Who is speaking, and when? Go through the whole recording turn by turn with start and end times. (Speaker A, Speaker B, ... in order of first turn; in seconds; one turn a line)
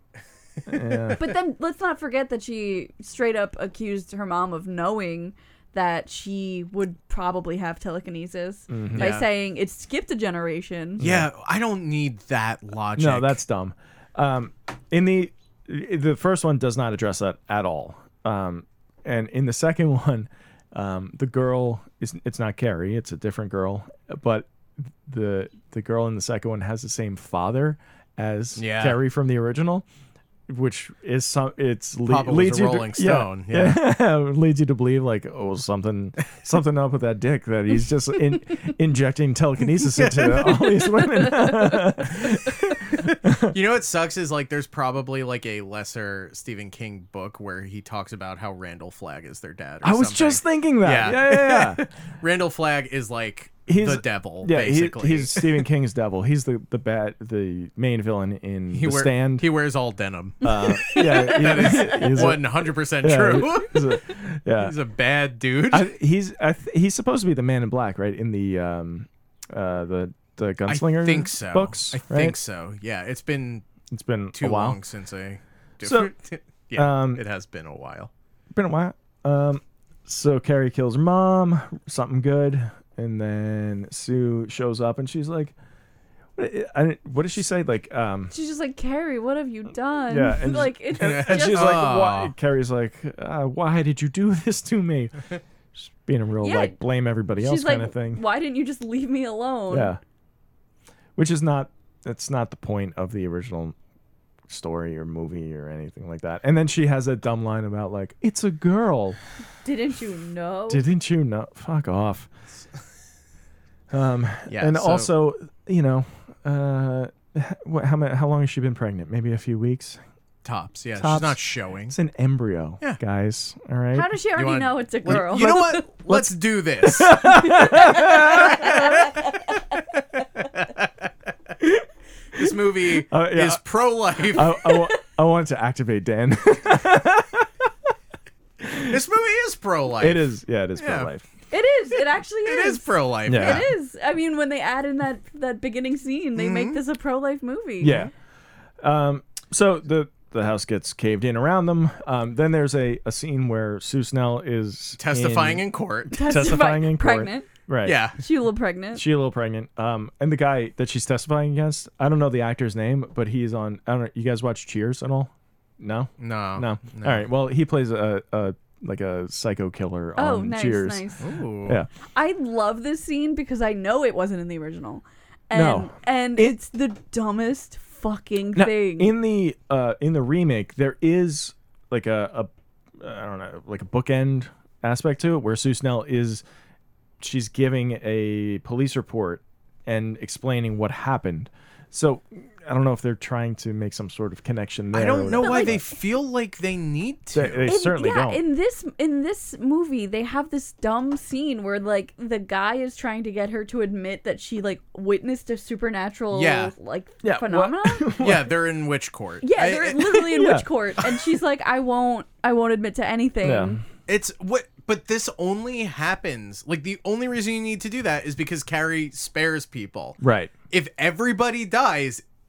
Speaker A: 0.7-1.3
Speaker B: 0.7-1.0
Speaker C: 1.1-11.0
Speaker A: 8.7-9.1
Speaker B: 8.9-9.3
Speaker A: 11.0-11.3
Speaker B: 11.0-13.4
Speaker A: 12.9-24.5
Speaker A: 25.0-29.9
Speaker B: 28.6-29.0
Speaker A: 30.5-43.5
Speaker B: 32.0-33.8
Speaker B: 39.8-40.5
Speaker C: 41.2-41.5
Speaker B: 43.3-55.6
Speaker A: 49.8-51.9
Speaker A: 53.7-59.5
Speaker B: 58.7-64.0
Speaker A: 60.4-64.7
Speaker C: 60.4-62.3
Speaker B: 64.5-65.9
Speaker A: 65.7-72.3
Speaker B: 70.7-73.6
Speaker A: 73.9-74.8
Speaker B: 74.3-78.1
Speaker A: 75.8-76.1
Speaker A: 76.7-77.2
Speaker A: 78.5-85.5
Speaker A: 86.4-88.3
Speaker C: 88.3-91.9
Speaker A: 90.1-98.2
Speaker B: 91.0-92.3
Speaker C: 96.4-96.8
Speaker C: 97.4-99.9
Speaker A: 99.7-100.0
Speaker A: 101.2-103.7
Speaker A: 104.5-109.2
Speaker C: 109.6-110.8
Speaker A: 110.7-112.3
Speaker A: 113.9-120.0
Speaker B: 114.5-115.1
Speaker B: 120.4-121.9
Speaker A: 121.0-124.1
Speaker C: 123.9-125.8
Speaker B: 124.3-127.6
Speaker A: 125.0-128.8
Speaker C: 127.5-129.4
Speaker B: 128.3-129.1
Speaker B: 130.4-130.9
Speaker B: 132.3-134.7
Speaker A: 132.3-133.6
Speaker A: 134.2-137.5
Speaker A: 138.6-139.0
Speaker B: 138.9-141.1
Speaker A: 140.0-141.3
Speaker C: 141.5-148.1
Speaker B: 142.4-143.7
Speaker A: 143.3-143.7
Speaker B: 146.3-146.8
Speaker A: 147.8-148.1
Speaker A: 148.8-158.0
Speaker B: 155.0-156.2
Speaker C: 156.1-157.5
Speaker B: 157.8-158.2
Speaker C: 158.2-159.0
Speaker A: 158.9-171.0
Speaker B: 166.2-167.2
Speaker C: 170.2-171.2
Speaker B: 171.2-171.8
Speaker C: 172.1-179.1
Speaker A: 175.5-176.6
Speaker A: 178.5-186.4
Speaker A: 187.2-195.8
Speaker B: 194.9-197.7
Speaker C: 195.4-195.8
Speaker A: 197.3-198.4
Speaker C: 197.6-208.1
Speaker B: 206.3-206.7
Speaker A: 207.2-208.5
Speaker B: 208.2-210.2
Speaker C: 209.4-213.8
Speaker A: 210.2-210.7
Speaker A: 213.4-213.8
Speaker B: 214.1-220.2
Speaker A: 220.2-220.5
Speaker B: 220.7-222.2